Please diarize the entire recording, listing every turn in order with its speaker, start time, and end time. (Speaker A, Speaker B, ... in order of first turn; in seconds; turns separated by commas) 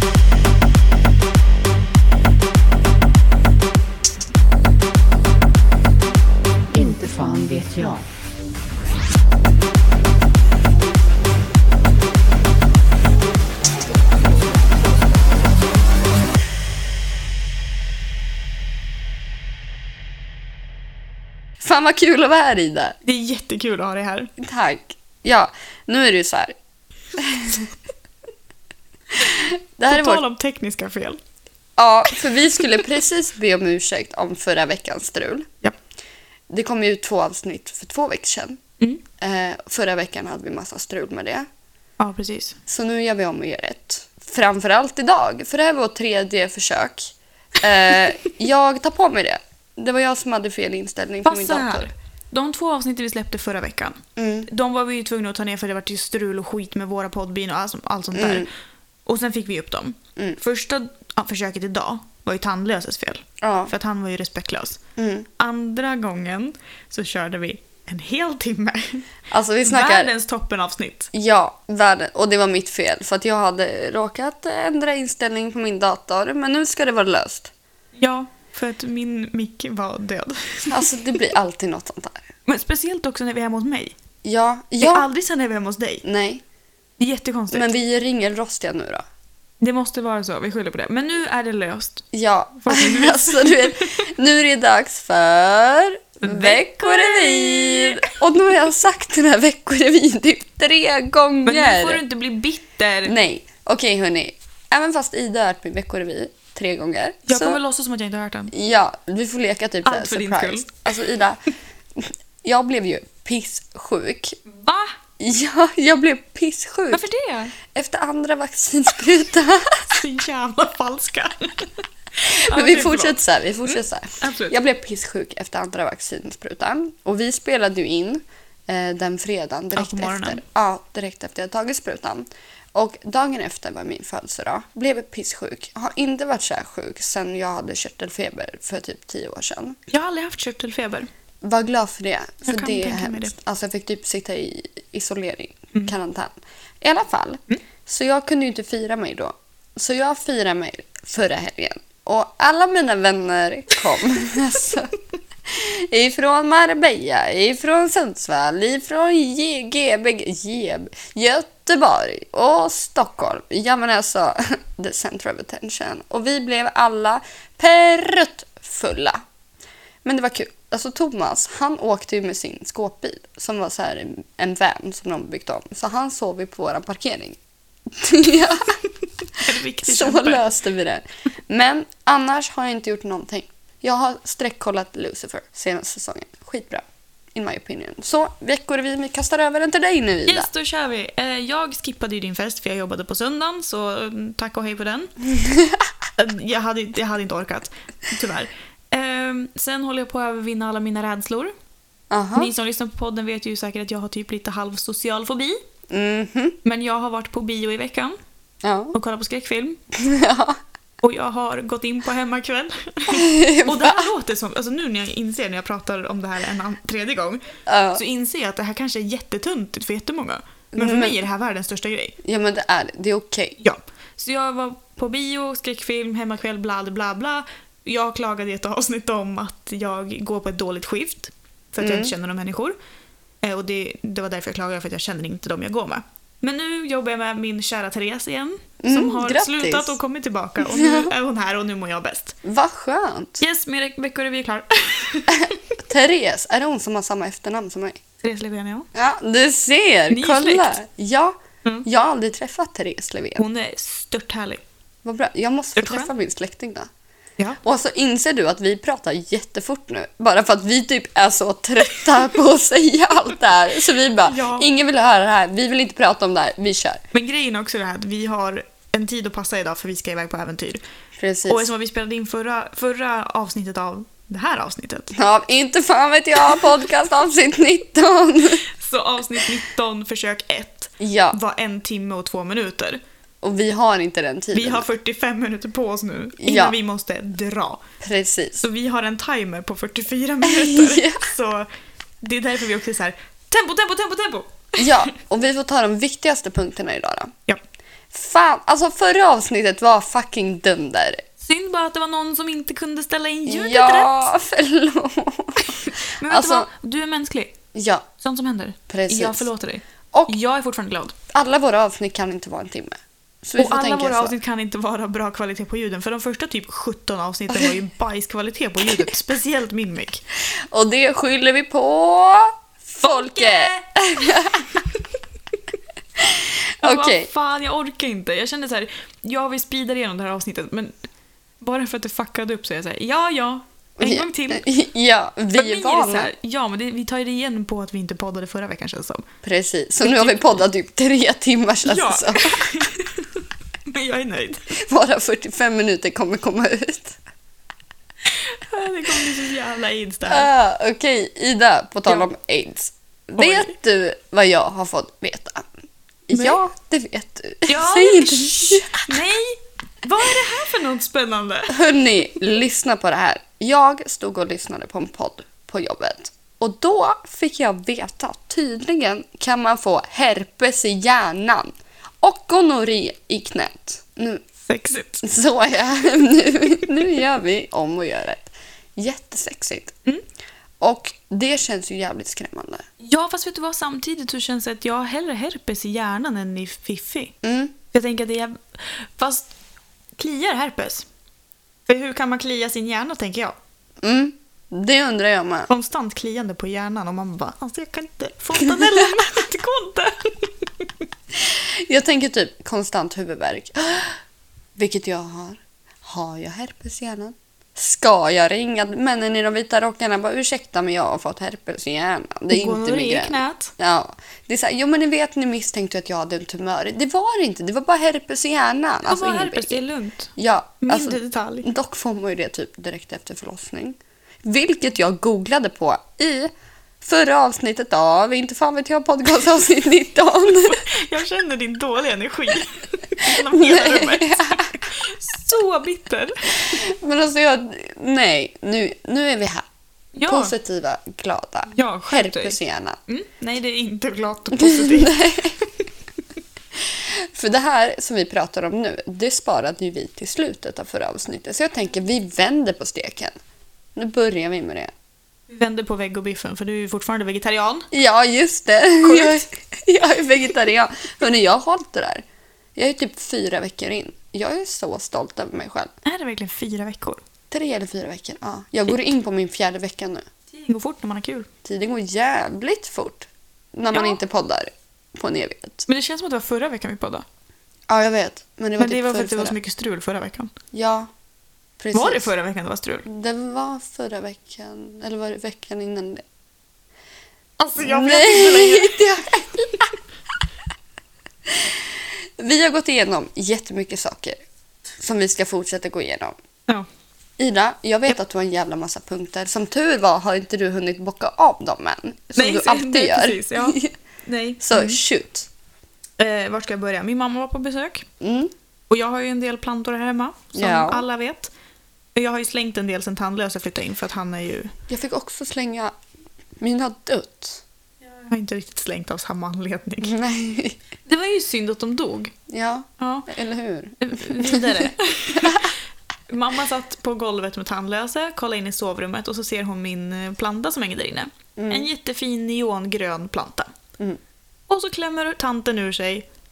Speaker A: 6.7-8.0, Speaker A: 21.6-23.0, Speaker B: 23.0-24.3, Speaker A: 24.4-26.5, Speaker A: 27.2-27.7, Speaker A: 29.1-30.2, Speaker B: 29.9-31.2, Speaker A: 31.8-35.5, Speaker A: 36.5-38.6, Speaker A: 39.2-41.5, Speaker B: 42.0-42.6, Speaker A: 42.7-51.9, Speaker B: 51.2-58.5, Speaker A: 54.1-54.5, Speaker A: 58.1-58.5, Speaker B: 59.0-64.8, Speaker A: 63.4-63.7, Speaker A: 65.0-65.3, Speaker B: 65.4-69.0, Speaker A: 69.3-70.1, Speaker B: 69.7-71.1, Speaker A: 71.1-77.5, Speaker B: 78.0-80.9, Speaker A: 80.7-82.3, Speaker B: 82.5-83.9, Speaker A: 84.2-85.0, Speaker B: 84.8-86.0, Speaker A: 86.0-86.4, Speaker B: 87.0-87.7, Speaker A: 87.5-89.0, Speaker B: 89.6-92.0, Speaker A: 92.1-102.0, Speaker B: 92.6-94.0, Speaker B: 96.2-98.1, Speaker B: 101.4-103.1, Speaker A: 103.0-107.6, Speaker B: 107.3-108.5, Speaker A: 108.5-111.4, Speaker B: 109.8-110.8, Speaker A: 112.0-114.4, Speaker B: 114.5-114.9, Speaker A: 115.2-117.0, Speaker B: 116.9-117.5, Speaker A: 117.7-119.9, Speaker B: 119.9-124.5, Speaker A: 122.2-139.8, Speaker B: 129.7-130.4, Speaker B: 139.9-141.1, Speaker A: 141.4-154.9, Speaker B: 142.4-143.3, Speaker A: 155.5-169.2, Speaker A: 170.0-178.7, Speaker B: 179.2-180.4, Speaker A: 179.8-190.5, Speaker B: 190.2-195.1, Speaker A: 195.4-195.8, Speaker B: 196.2-201.5, Speaker A: 202.1-202.5, Speaker B: 202.3-205.6, Speaker A: 205.9-206.6, Speaker B: 206.6-208.2, Speaker A: 208.6-208.9, Speaker B: 208.9-209.8, Speaker A: 209.9-210.6, Speaker B: 211.0-222.2, Speaker A: 213.1-214.1, Speaker A: 217.7-218.0, Speaker A: 220.7-221.1, Speaker A: 222.2-223.6, Speaker B: 223.6-232.8, Speaker A: 231.8-232.1, Speaker B: 233.4-242.3, Speaker A: 238.8-239.9, Speaker A: 240.6-241.1, Speaker A: 242.4-243.4, Speaker B: 243.4-245.6, Speaker A: 245.3-248.0, Speaker B: 248.2-248.9, Speaker A: 248.9-253.4, Speaker B: 250.1-250.8, Speaker B: 253.4-254.6, Speaker A: 255.0-256.9, Speaker B: 255.8-256.1, Speaker A: 257.6-267.0, Speaker B: 264.2-264.7, Speaker B: 267.1-270.8, Speaker A: 271.2-271.7, Speaker B: 271.5-275.1, Speaker A: 275.1-278.6, Speaker B: 278.7-283.0, Speaker A: 281.0-281.4, Speaker A: 283.4-284.9, Speaker B: 284.5-287.8, Speaker A: 286.4-286.7, Speaker A: 288.0-288.6, Speaker B: 288.6-291.7, Speaker A: 290.4-291.2, Speaker B: 292.2-295.1, Speaker A: 294.8-297.3, Speaker A: 298.1-301.2, Speaker B: 301.4-304.1, Speaker A: 303.4-306.7, Speaker B: 305.6-307.5, Speaker A: 307.7-308.1, Speaker B: 308.2-311.1, Speaker A: 308.9-309.5, Speaker A: 311.3-314.3, Speaker B: 313.6-320.2, Speaker A: 320.5-324.8, Speaker B: 323.0-324.8, Speaker A: 326.2-327.3, Speaker B: 326.8-330.9, Speaker B: 331.6-334.6, Speaker A: 334.0-336.3, Speaker B: 335.5-339.2, Speaker A: 339.4-342.6, Speaker B: 340.0-340.5, Speaker B: 341.8-344.7, Speaker A: 344.8-347.2, Speaker B: 348.2-350.5, Speaker A: 350.3-355.7, Speaker B: 353.4-353.7, Speaker A: 356.3-359.1, Speaker B: 356.3-356.6, Speaker B: 357.7-361.8, Speaker A: 361.7-374.4, Speaker B: 374.6-375.2, Speaker A: 375.2-379.9, Speaker A: 380.8-382.8, Speaker B: 383.0-387.3, Speaker A: 387.4-387.7, Speaker B: 387.9-389.5, Speaker B: 390.2-391.1, Speaker B: 391.9-393.6, Speaker A: 394.0-395.7, Speaker B: 395.7-400.9, Speaker A: 401.4-404.2, Speaker A: 404.8-419.8, Speaker B: 412.5-413.7, Speaker B: 419.1-421.7, Speaker A: 420.4-430.9, Speaker B: 430.5-436.8, Speaker A: 433.2-434.7, Speaker A: 436.6-439.6, Speaker B: 440.1-440.5, Speaker A: 440.2-443.0, Speaker B: 441.7-445.3, Speaker A: 444.6-445.6, Speaker A: 446.8-453.3, Speaker A: 453.9-454.9, Speaker B: 455.5-457.9, Speaker A: 457.9-462.2, Speaker B: 459.0-459.4, Speaker A: 462.8-465.9, Speaker B: 466.0-467.2, Speaker A: 467.5-470.2, Speaker B: 470.7-471.5, Speaker A: 471.6-475.9, Speaker B: 473.9-474.2, Speaker B: 475.9-477.2, Speaker A: 477.9-479.5, Speaker B: 478.8-480.5, Speaker A: 480.7-481.1, Speaker A: 481.8-482.3, Speaker B: 481.9-483.1, Speaker A: 483.1-486.2, Speaker B: 487.6-489.0, Speaker A: 487.8-489.8, Speaker A: 491.5-494.4, Speaker A: 495.0-496.3, Speaker A: 497.4-503.9, Speaker B: 502.4-505.0, Speaker A: 504.6-505.5, Speaker B: 506.2-508.1, Speaker A: 508.2-508.5, Speaker B: 508.9-511.5, Speaker A: 510.5-511.0, Speaker B: 512.1-514.7, Speaker A: 514.9-515.9, Speaker A: 516.6-517.6, Speaker B: 518.3-520.2, Speaker A: 520.0-520.8, Speaker B: 521.1-522.3, Speaker A: 522.5-525.6, Speaker B: 523.0-523.3, Speaker B: 524.0-525.7, Speaker B: 526.3-533.7, Speaker A: 531.5-531.9, Speaker B: 534.7-536.2